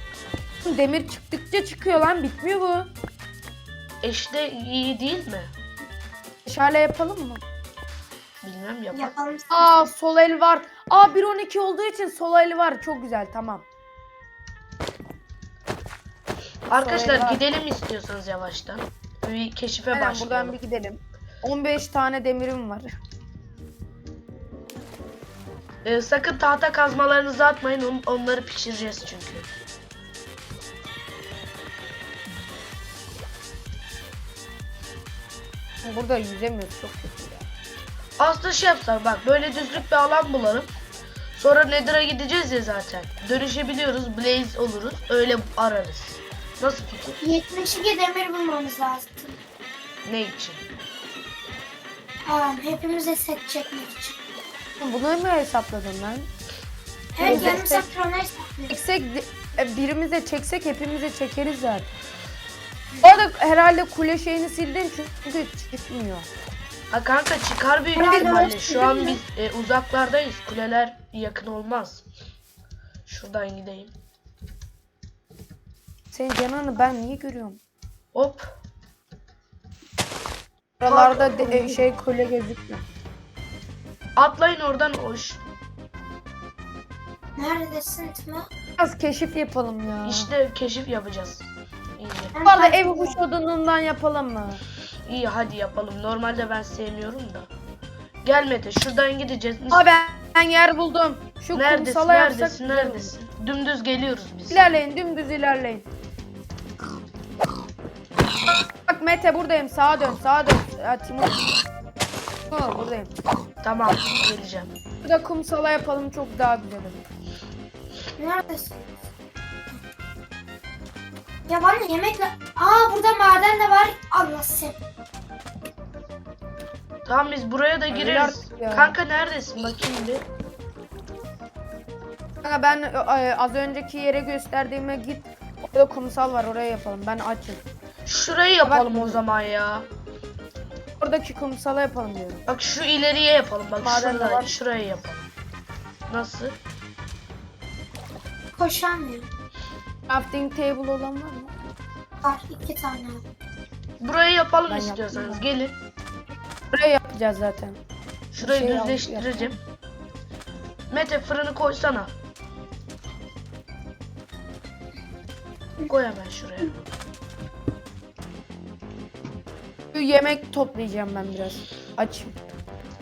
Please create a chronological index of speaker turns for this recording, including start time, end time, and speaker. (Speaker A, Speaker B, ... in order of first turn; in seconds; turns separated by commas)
Speaker A: 0.6-2.9, Speaker B: 4.0-5.5, Speaker A: 6.4-7.4, Speaker B: 8.4-9.1, Speaker C: 8.9-9.7, Speaker A: 9.5-13.6, Speaker B: 16.7-20.5, Speaker A: 16.8-17.4, Speaker A: 19.9-22.9, Speaker B: 25.8-29.5, Speaker A: 35.8-37.5, Speaker B: 38.2-40.7, Speaker B: 41.3-47.1, Speaker C: 47.2-49.4, Speaker B: 50.0-50.6, Speaker C: 52.2-54.2, Speaker A: 54.8-56.3, Speaker C: 57.1-58.7, Speaker A: 57.2-57.9, Speaker B: 57.2-57.6, Speaker A: 58.7-61.9, Speaker A: 63.0-66.3, Speaker B: 66.9-72.0, Speaker C: 67.9-69.2, Speaker A: 68.0-68.5, Speaker B: 73.0-73.9, Speaker A: 76.1-77.6, Speaker B: 78.1-78.5, Speaker A: 80.8-82.8, Speaker B: 80.8-81.8, Speaker B: 84.2-85.4, Speaker C: 87.4-88.5, Speaker A: 88.8-90.3, Speaker B: 90.0-91.5, Speaker B: 92.0-92.3, Speaker C: 92.3-93.2, Speaker A: 92.5-94.6, Speaker B: 95.1-97.5, Speaker B: 98.2-99.9, Speaker A: 99.7-103.1, Speaker B: 101.5-104.7, Speaker A: 104.5-105.8, Speaker A: 108.9-111.5, Speaker A: 112.5-113.1, Speaker B: 113.6-114.7, Speaker A: 115.0-117.0, Speaker C: 118.2-118.8, Speaker C: 121.5-124.8, Speaker B: 127.0-130.2, Speaker A: 127.9-128.9, Speaker A: 132.4-137.6, Speaker B: 138.1-139.9, Speaker A: 138.6-139.2, Speaker A: 141.0-142.4, Speaker B: 142.5-145.3, Speaker A: 143.8-144.5, Speaker B: 146.1-146.6, Speaker C: 148.6-149.3, Speaker A: 150.1-151.5, Speaker C: 152.2-153.2, Speaker B: 154.0-155.7, Speaker A: 154.7-155.4, Speaker A: 156.7-157.8, Speaker B: 158.3-159.6, Speaker A: 158.4-159.6, Speaker B: 160.9-162.1, Speaker B: 165.8-166.8, Speaker A: 169.9-172.3